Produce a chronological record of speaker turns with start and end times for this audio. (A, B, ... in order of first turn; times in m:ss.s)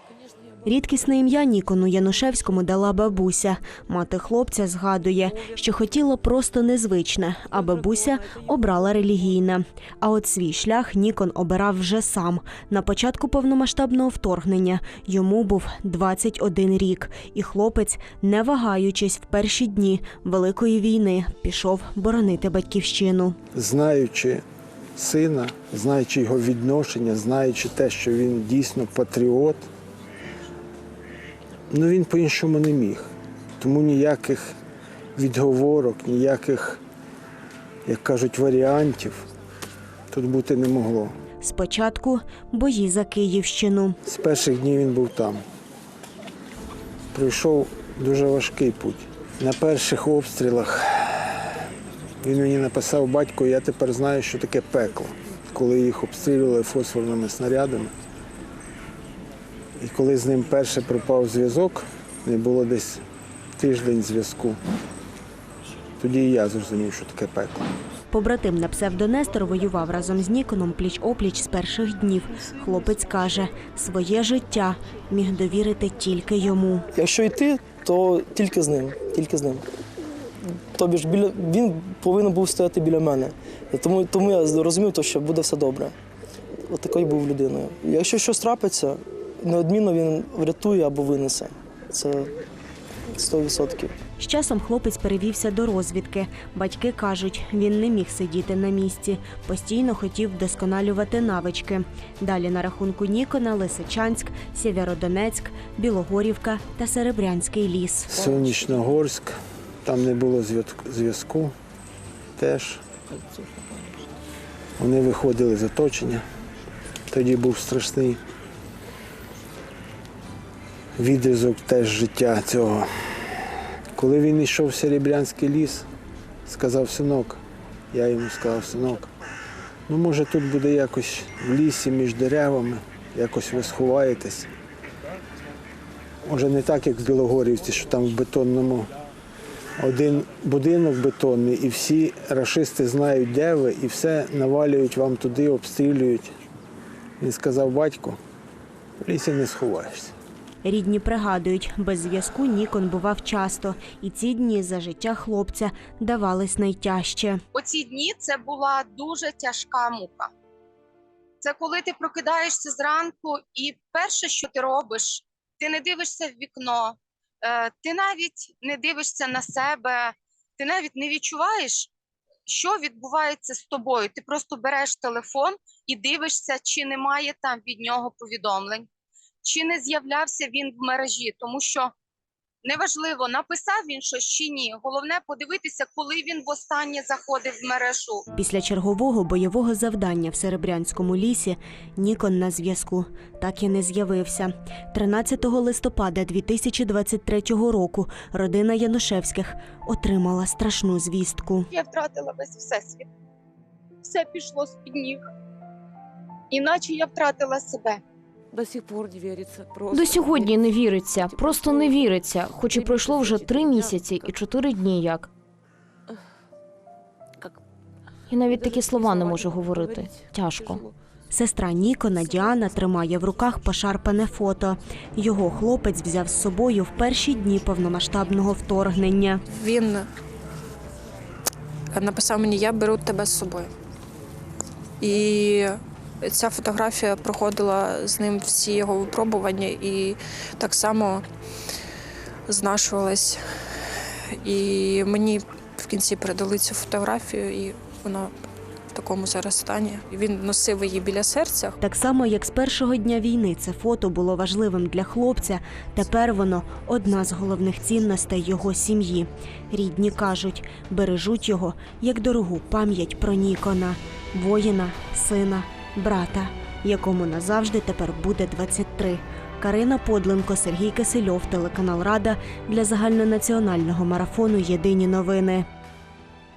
0:00.6-0:23.4 A
0:23.5-0:24.4 B
0:25.0-0:29.6 B
0:31.7-0:34.6 B
0:35.2-0:36.8 B
0:37.9-0:39.2 B
0:40.1-0:41.1 B
0:41.4-0:44.0 A
0:44.1-0:45.4 B
0:47.1-0:51.4 B
0:52.2-0:57.9 B
0:59.8-1:03.0 B
1:03.6-1:04.6 B
1:06.0-1:07.7 B
1:08.1-1:16.9 A
1:17.0-1:19.6 C
1:20.7-1:26.0 C
1:26.6-1:32.3 C
1:33.1-1:34.0 C
1:34.2-1:48.2 A
1:48.1-1:51.5 B
1:52.4-1:52.8 B
1:53.2-1:53.7 D
1:54.8-1:56.2 B
1:57.1-1:58.2 B
2:01.0-2:02.9 B
2:04.0-2:05.9 B
2:06.5-2:07.4 B
2:07.9-2:09.1 B
2:09.9-2:14.5 B
2:16.2-2:18.9 B
2:19.8-2:26.3 B
2:27.2-2:28.2 B
2:29.0-2:30.1 B
2:30.6-2:37.4 A
2:37.5-2:40.3 E
2:41.4-2:51.9 E
2:52.5-2:58.9 E
2:59.4-3:01.9 E
3:02.6-3:08.2 E
3:08.3-3:21.7 A
3:21.7-3:23.1 E
3:24.0-3:25.2 E
3:26.5-3:28.0 E
3:28.5-3:30.6 D
3:29.9-3:35.3 F
3:31.2-3:34.4 D
3:38.3-3:40.8 F
3:38.5-3:40.9 D
3:41.3-3:49.4 A
3:49.5-3:50.1 G
3:51.9-3:53.7 G
3:55.0-4:01.3 G
4:02.5-4:03.4 G
4:04.3-4:08.3 G
4:08.9-4:11.8 G
4:11.8-4:35.7 A